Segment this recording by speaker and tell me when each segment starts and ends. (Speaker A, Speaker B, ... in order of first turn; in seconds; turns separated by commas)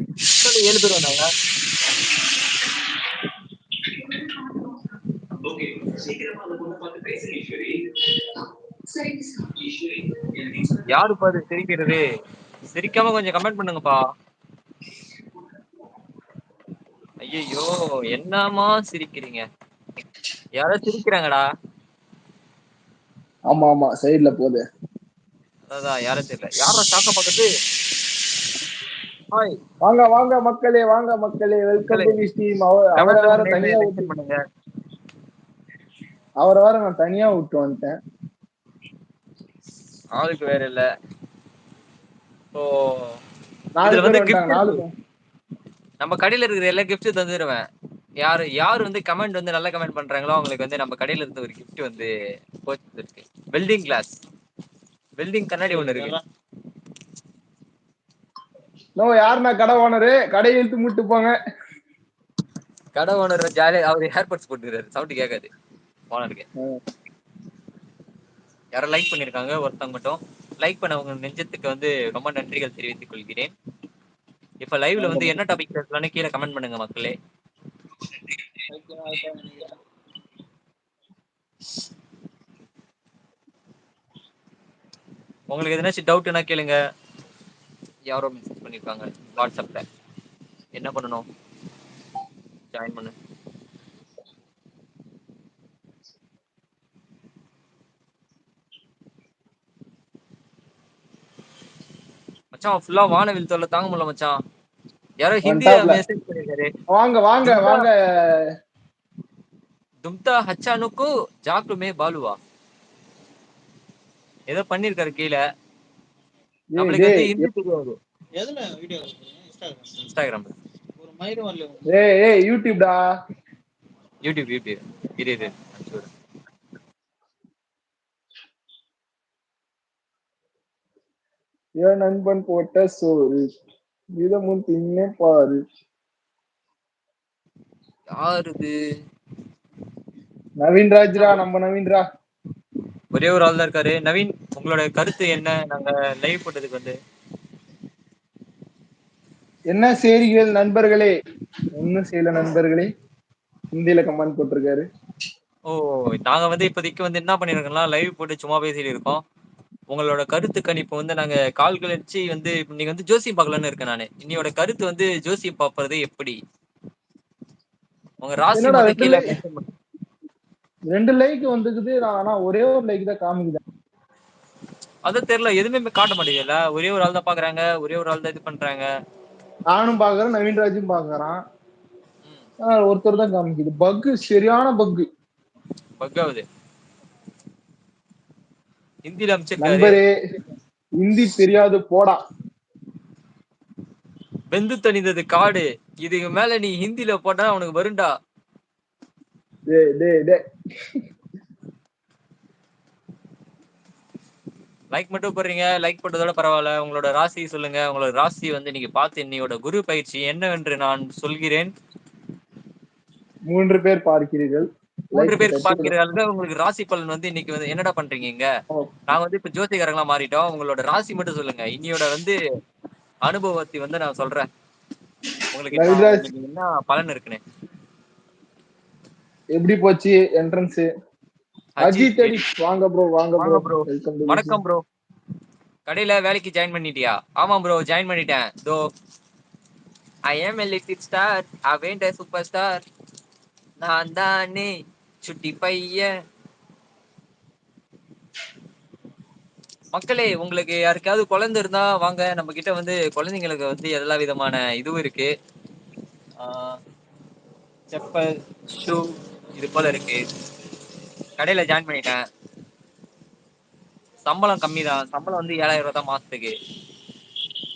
Speaker A: 0.3-1.3, Speaker A: 5.4-8.0, Speaker A: 9.5-12.0, Speaker A: 12.7-14.0, Speaker A: 17.2-19.4, Speaker A: 20.6-21.4, Speaker B: 23.5-24.6, Speaker A: 25.7-27.5, Speaker B: 29.8-34.1, Speaker A: 31.8-32.2, Speaker A: 33.0-34.4, Speaker B: 36.4-37.9, Speaker A: 40.2-40.8, Speaker A: 42.5-43.2, Speaker B: 43.8-44.9, Speaker A: 43.8-44.8, Speaker A: 46.0-47.6, Speaker A: 48.2-52.1, Speaker A: 52.6-54.1, Speaker A: 55.2-56.1, Speaker C: 55.7-56.2, Speaker B: 59.0-61.3, Speaker A: 62.9-65.5, Speaker A: 66.1-66.5, Speaker A: 68.7-73.5, Speaker A: 74.6-77.1, Speaker B: 75.0-75.3, Speaker C: 78.7-79.8, Speaker A: 85.5-86.8, Speaker A: 88.1-89.8, Speaker A: 90.7-91.2, Speaker A: 92.7-93.1, Speaker A: 102.5-104.3, Speaker A: 105.2-106.7, Speaker B: 105.4-106.0, Speaker B: 106.9-107.9, Speaker A: 107.4-107.9, Speaker A: 110.0-112.4, Speaker A: 114.5-115.4, Speaker B: 116.7-117.4, Speaker A: 116.8-118.0, Speaker C: 118.3-120.0, Speaker A: 120.0-120.5, Speaker C: 121.0-121.9, Speaker B: 121.8-123.0, Speaker A: 124.2-126.1, Speaker B: 131.8-133.4, Speaker B: 134.2-135.6, Speaker A: 138.2-138.7, Speaker B: 140.6-142.0, Speaker A: 143.1-146.9, Speaker B: 149.7-151.1, Speaker B: 151.8-152.9, Speaker B: 153.7-154.8, Speaker A: 155.7-159.2, Speaker A: 159.9-166.3, Speaker A: 168.2-169.7, Speaker B: 168.5-169.2, Speaker B: 170.9-173.6, Speaker A: 175.1-178.8, Speaker B: 179.7-181.4, Speaker B: 182.6-185.1, Speaker A: 186.0-186.4, Speaker A: 189.1-190.0, Speaker B: 189.6-190.1, Speaker B: 191.0-192.2, Speaker A: 194.5-198.1, Speaker B: 199.7-200.4, Speaker A: 204.9-211.7, Speaker B: 213.5-215.9, Speaker A: 215.1-218.4, Speaker A: 219.1-222.3, Speaker A: 223.3-224.4, Speaker A: 225.5-227.4, Speaker B: 225.7-226.3, Speaker B: 229.5-230.9, Speaker A: 231.8-232.4, Speaker B: 231.8-234.6, Speaker A: 233.4-234.8, Speaker A: 235.8-238.8, Speaker A: 240.3-242.8, Speaker A: 243.8-244.7, Speaker A: 245.2-246.1, Speaker A: 249.9-255.3, Speaker A: 256.4-256.8, Speaker A: 257.9-259.1, Speaker A: 259.6-260.2, Speaker A: 261.4-262.2, Speaker A: 264.2-266.5